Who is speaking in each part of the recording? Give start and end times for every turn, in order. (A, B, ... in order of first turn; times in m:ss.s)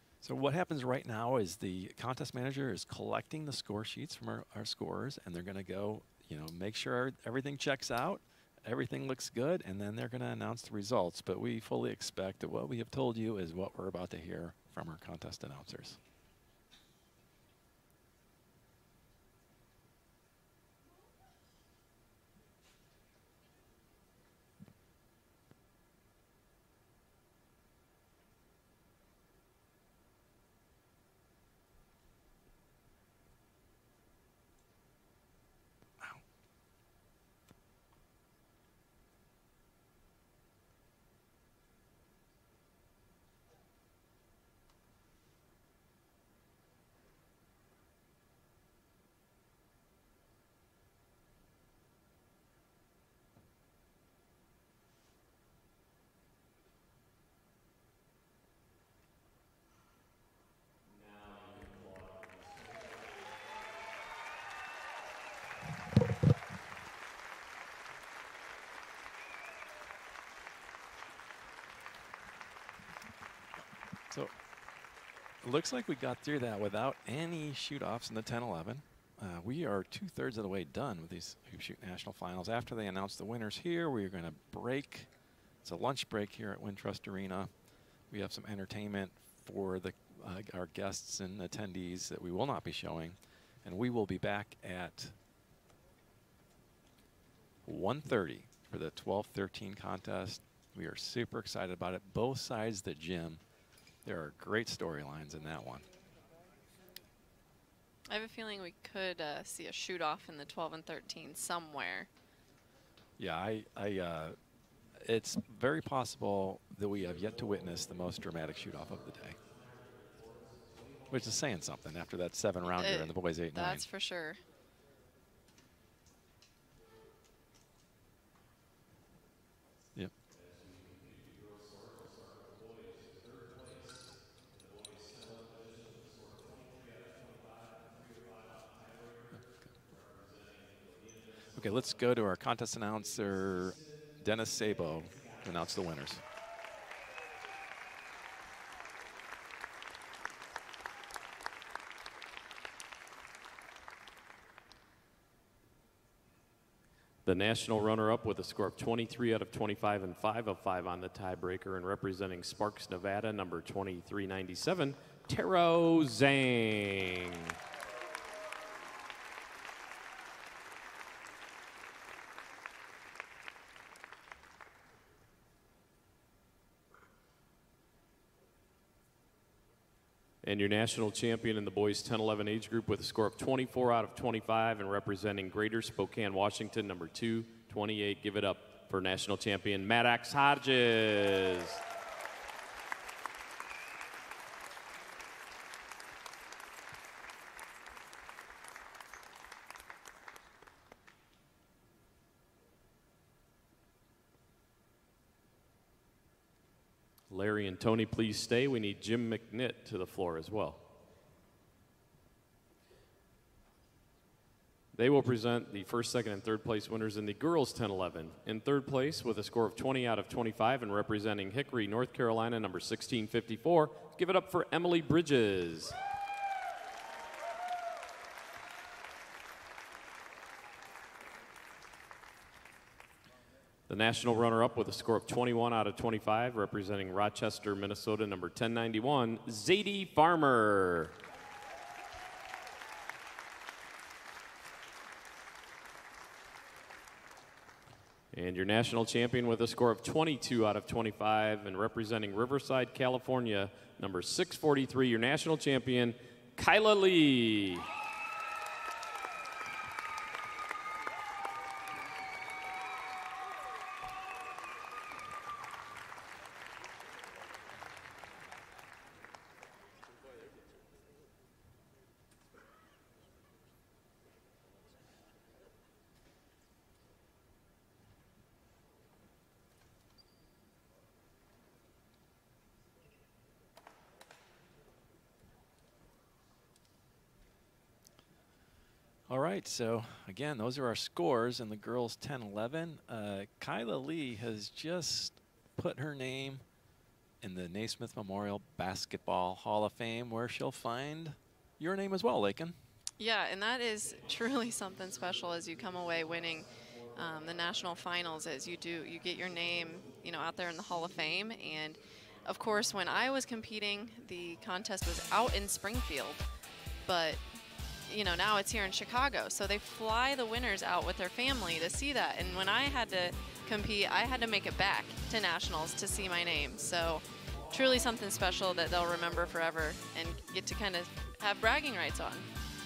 0:00.2-0:16.0 A
1:01.0-1:02.8 B
1:15.4-1:25.1 A
1:25.6-1:27.5 A
1:28.1-1:35.2 A
1:37.6-1:43.4 A
1:44.0-1:45.8 A
1:48.1-1:52.1 C
1:53.2-1:54.4 A
1:55.0-1:59.4 A
1:58.7-2:01.2 B
2:01.1-2:03.8 A
2:02.7-2:04.4 C
2:10.3-2:22.0 B
2:21.5-2:26.2 A
2:23.2-2:24.0 B
2:24.9-2:25.5 B
2:37.2-2:47.5 B
3:00.4-3:11.8 B
3:27.3-3:30.8 B
3:34.9-3:46.0 B
3:53.9-4:01.1 B
4:08.3-4:17.9 B
4:49.3-4:56.6 A
4:57.4-5:02.8 A
5:03.2-5:16.4 C
5:17.0-5:17.4 C
5:18.1-5:32.5 C